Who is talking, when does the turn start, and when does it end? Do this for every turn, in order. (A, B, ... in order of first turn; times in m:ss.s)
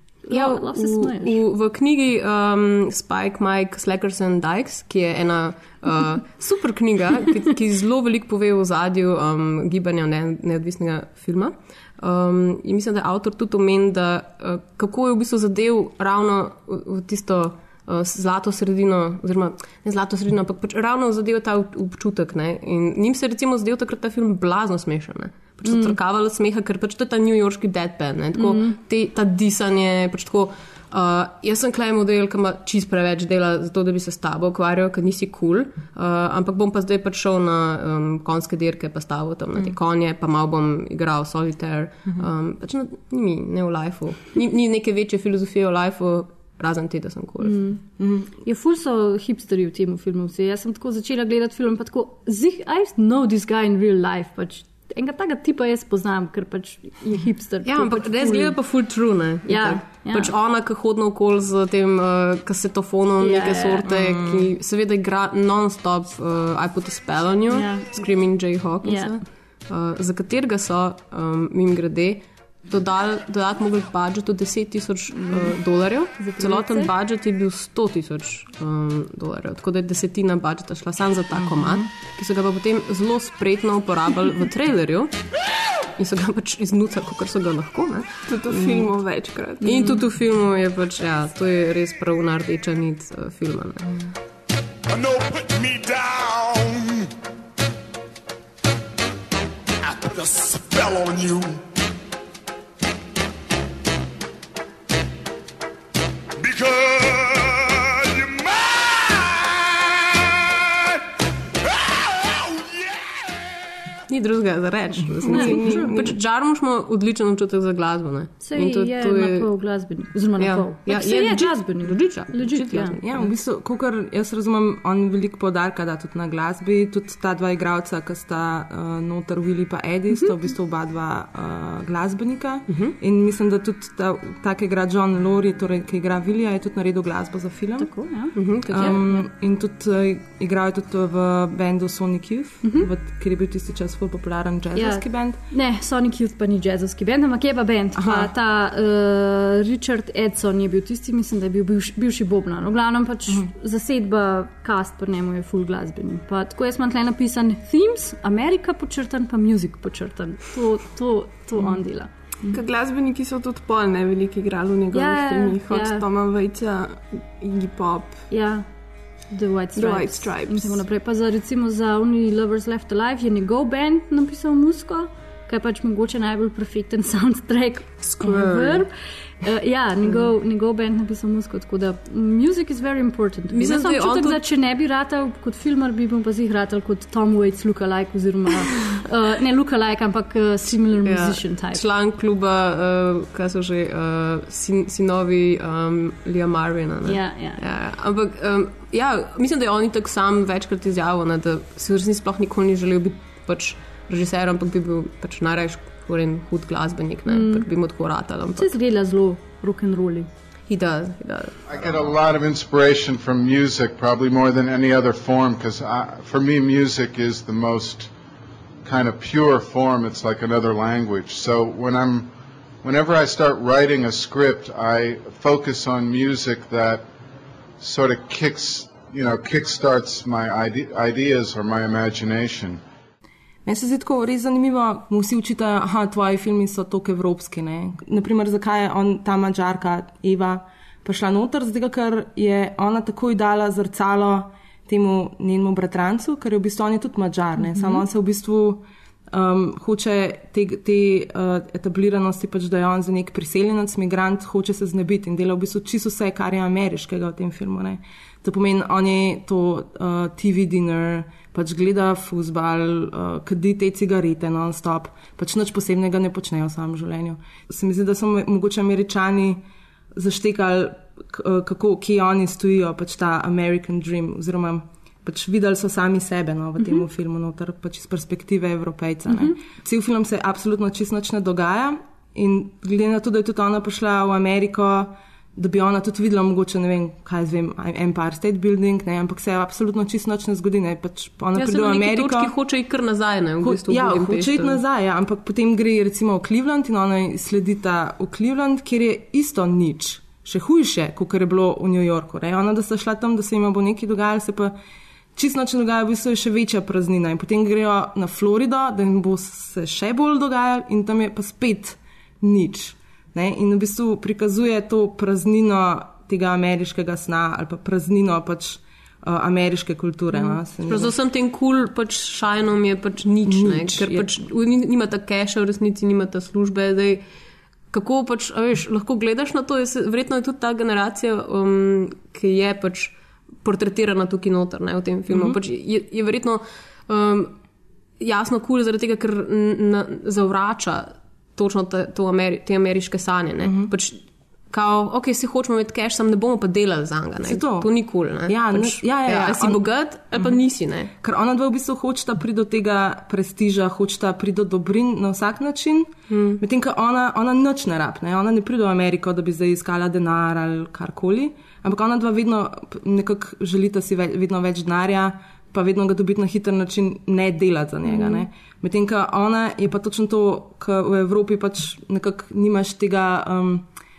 0:00.2-0:01.4 A
0:00.3-0:47.6 B
0:25.6-0:26.0 A
0:28.3-0:28.8 A
0:47.4-0:47.8 A
0:48.0-0:48.3 C
0:48.4-0:58.6 A
0:57.6-1:25.1 B
0:59.5-1:00.3 A
1:03.2-1:03.9 A
1:03.8-1:04.5 C
1:07.5-1:08.0 A
1:08.8-1:09.1 A
1:15.2-1:15.5 A
1:16.2-1:16.9 A
1:26.0-1:28.9 B
1:28.3-1:29.8 D
1:29.6-1:33.8 B
1:29.6-1:29.9 A
1:34.9-1:37.1 E
1:39.8-1:41.6 E
1:46.4-1:51.0 E
1:51.6-1:53.3 E
1:54.1-1:59.5 B
1:55.2-1:56.1 D
1:55.3-1:55.8 C
1:58.4-2:03.0 A
2:00.4-2:03.3 B
2:03.0-2:17.9 C
2:12.7-2:12.9 B
2:17.8-2:19.2 A
2:18.4-2:19.0 B
2:18.7-2:25.4 C
2:22.6-2:22.9 A
2:24.7-2:42.1 A
2:27.9-2:28.3 C
2:42.5-2:48.2 D
2:44.9-2:46.0 A
2:48.3-2:48.6 A
2:49.3-2:58.9 A
2:49.7-2:50.8 D
2:58.0-2:58.8 B
2:59.4-3:11.8 A
3:03.5-3:04.4 B
3:11.0-3:28.7 B
3:17.0-3:17.6 A
3:27.3-3:27.7 A
3:28.6-3:30.3 A
3:30.7-3:31.6 B
3:31.7-3:38.1 F
3:38.8-3:42.3 F
3:42.8-3:47.0 F
3:47.8-3:52.8 F
3:53.6-4:29.6 C
4:07.7-4:08.0 A
4:30.1-4:52.5 C
4:39.3-4:39.6 A
4:51.5-4:54.8 B
4:53.6-5:04.8 C
5:05.3-5:21.1 C
5:20.8-5:27.2 B
5:23.4-5:24.3 C
5:27.9-5:37.5 B
5:35.3-5:35.6 C
5:38.2-5:51.1 B
5:43.6-5:43.9 C
5:47.4-5:47.9 C
5:48.4-5:49.8 C
5:51.2-6:13.9 C
5:56.3-5:56.6 B
6:08.1-6:08.4 A